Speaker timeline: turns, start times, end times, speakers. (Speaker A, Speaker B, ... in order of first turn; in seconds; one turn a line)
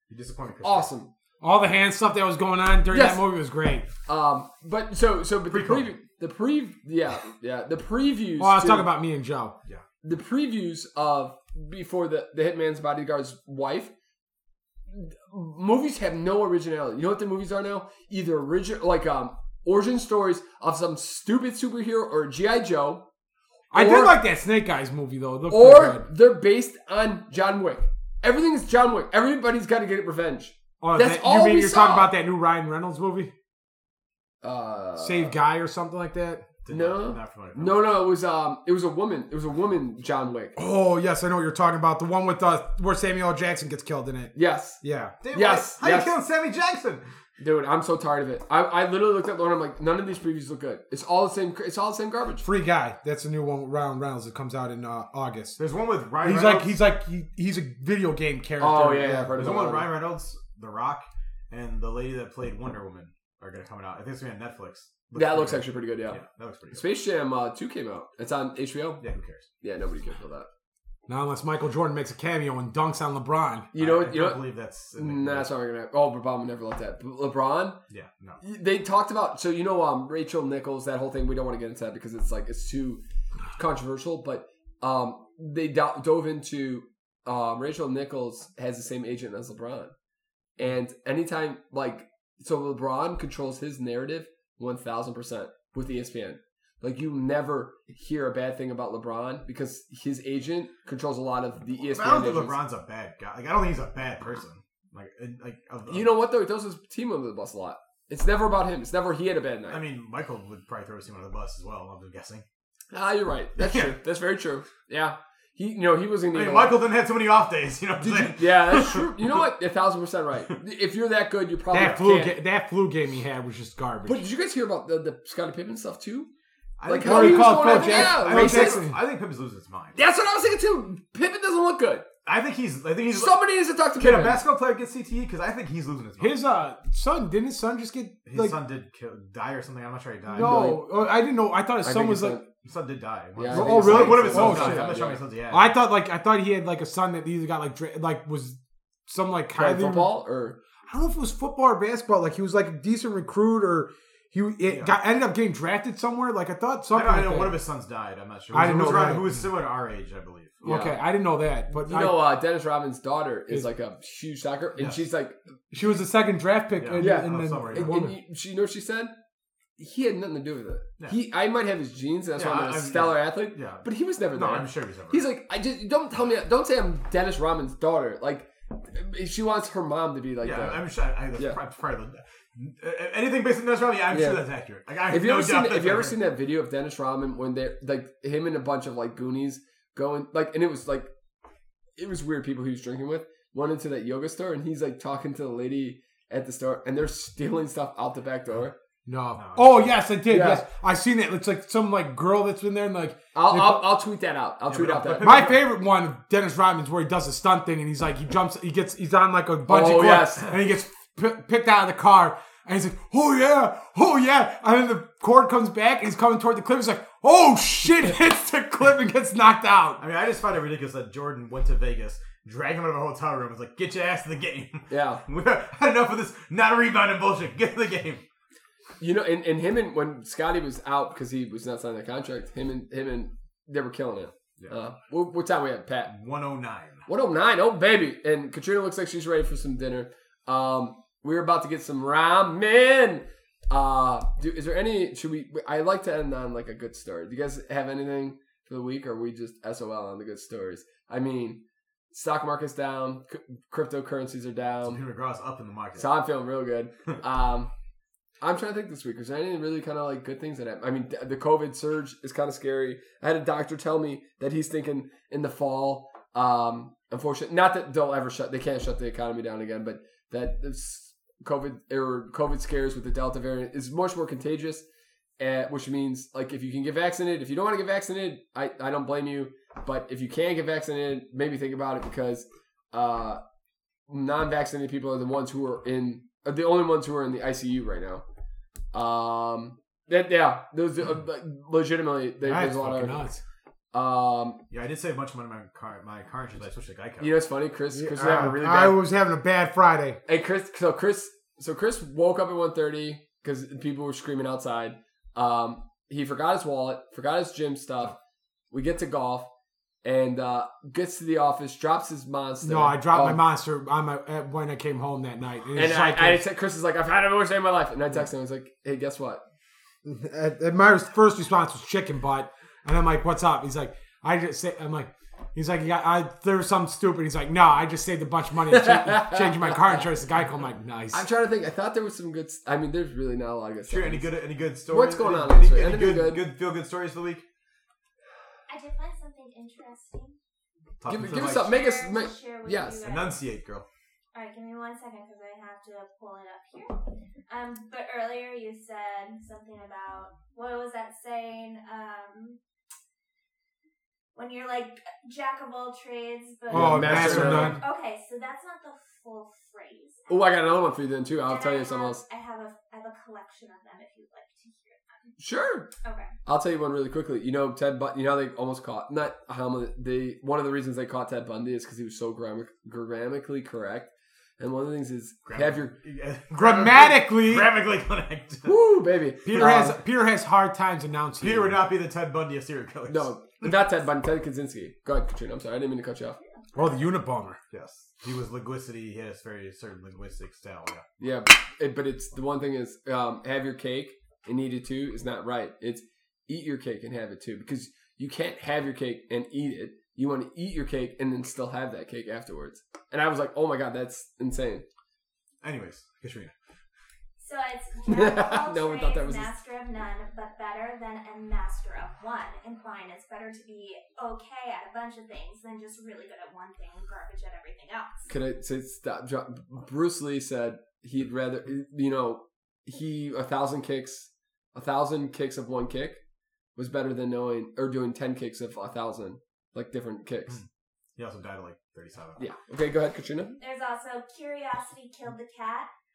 Speaker A: 0.1-0.9
Speaker B: 0.6-1.1
Speaker C: 1.4-3.9
Speaker B: 2.9-3.2
Speaker B: 4.1-8.9
Speaker A: 5.5-5.9
Speaker C: 8.4-9.5
Speaker B: 10.0-13.9
Speaker B: 14.9-23.1
Speaker B: 23.7-24.2
Speaker C: 23.7-26.1
Speaker B: 25.5-32.1
Speaker C: 30.8-33.3
Speaker B: 34.4-35.4
Speaker C: 35.0-36.5
Speaker A: 36.6-37.9
Speaker B: 36.7-40.6
Speaker C: 40.6-45.1
Speaker B: 44.4-44.8
Speaker A: 45.2-47.0
Speaker B: 45.3-46.1
Speaker B: 47.4-52.5
Speaker C: 52.4-55.6
Speaker A: 55.6-56.8
Speaker C: 56.2-59.6
Speaker B: 58.6-59.9
Speaker A: 59.4-66.8
Speaker B: 65.1-66.2
Speaker B: 66.7-69.0
Speaker A: 69.0-69.5
Speaker B: 69.6-70.5
Speaker C: 71.1-73.7
Speaker B: 73.7-74.4
Speaker A: 73.8-75.5
Speaker B: 75.0-77.8
Speaker A: 77.9-78.4
Speaker B: 78.4-83.0
Speaker B: 83.6-89.9
Speaker B: 90.6-102.6
Speaker A: 101.9-106.1
Speaker B: 105.9-109.8
Speaker A: 109.7-112.4
Speaker B: 112.9-116.8
Speaker A: 113.6-113.9
Speaker A: 116.3-119.4
Speaker B: 118.0-122.4
Speaker C: 121.7-124.2
Speaker B: 124.1-126.3
Speaker A: 126.8-130.0
Speaker B: 126.9-128.8
Speaker C: 127.0-129.0
Speaker B: 130.0-132.1
Speaker A: 132.2-133.4
Speaker B: 133.1-134.4
Speaker A: 134.0-136.4
Speaker C: 136.2-138.6
Speaker A: 138.2-140.8
Speaker C: 140.3-142.4
Speaker B: 140.3-140.8
Speaker B: 141.8-142.5
Speaker A: 142.6-145.8
Speaker B: 143.4-145.2
Speaker C: 143.5-150.1
Speaker B: 149.5-150.6
Speaker C: 150.9-157.6
Speaker A: 154.7-155.0
Speaker A: 156.9-160.7
Speaker C: 158.5-159.4
Speaker B: 160.6-161.0
Speaker C: 160.6-162.2
Speaker B: 161.7-165.4
Speaker C: 165.7-168.2
Speaker A: 166.8-168.0
Speaker B: 167.0-169.2
Speaker B: 169.8-180.8
Speaker A: 172.4-175.3
Speaker A: 180.4-186.2
Speaker B: 184.1-184.4
Speaker B: 185.1-191.1
Speaker B: 192.0-198.8
Speaker C: 199.1-203.9
Speaker A: 199.4-200.0
Speaker B: 200.3-200.6
Speaker B: 203.3-205.5
Speaker A: 204.7-205.7
Speaker C: 205.2-220.0
Speaker B: 209.7-210.6
Speaker A: 220.0-228.2
Speaker B: 224.9-225.2
Speaker B: 229.0-236.1
Speaker A: 236.1-237.0
Speaker B: 237.1-255.0
Speaker A: 254.8-256.1
Speaker B: 256.0-257.7
Speaker B: 258.4-274.9
Speaker B: 275.4-283.4
Speaker B: 284.1-288.2
Speaker B: 288.9-293.2
Speaker C: 292.4-293.4
Speaker B: 293.9-294.6
Speaker A: 294.7-297.4
Speaker B: 297.2-299.0
Speaker C: 297.9-300.2
Speaker B: 300.3-308.2
Speaker B: 308.7-309.5
Speaker B: 310.0-313.4
Speaker C: 312.6-316.5
Speaker B: 315.7-319.4
Speaker C: 320.1-331.2
Speaker B: 328.7-329.9
Speaker B: 331.1-334.3
Speaker A: 333.9-337.4
Speaker B: 334.9-336.4
Speaker D: 338.7-340.4
Speaker A: 341.0-341.7
Speaker B: 341.1-343.0
Speaker D: 341.3-343.4
Speaker A: 343.0-343.9
Speaker D: 344.3-352.6
Speaker D: 354.4-360.5
Speaker C: 356.7-357.8
Speaker B: 356.7-357.8
Speaker A: 356.8-357.8
Speaker B: 360.3-362.2
Speaker D: 361.5-365.4
Speaker B: 365.4-365.9
Speaker D: 366.0-366.3
Speaker B: 366.4-375.9
Speaker A: 375.5-378.8
Speaker C: 376.5-377.7
Speaker B: 378.6-380.0
Speaker C: 379.4-381.8
Speaker A: 381.4-383.7
Speaker B: 383.1-386.4
Speaker C: 386.8-387.6
Speaker A: 387.7-391.0
Speaker B: 391.2-404.9
Speaker A: 405.6-406.5
Speaker D: 407.4-418.3
Speaker B: 408.1-409.5
Speaker B: 418.3-426.2
Speaker B: 426.8-430.6
Speaker A: 430.5-432.4
Speaker B: 432.4-433.5
Speaker D: 433.6-435.9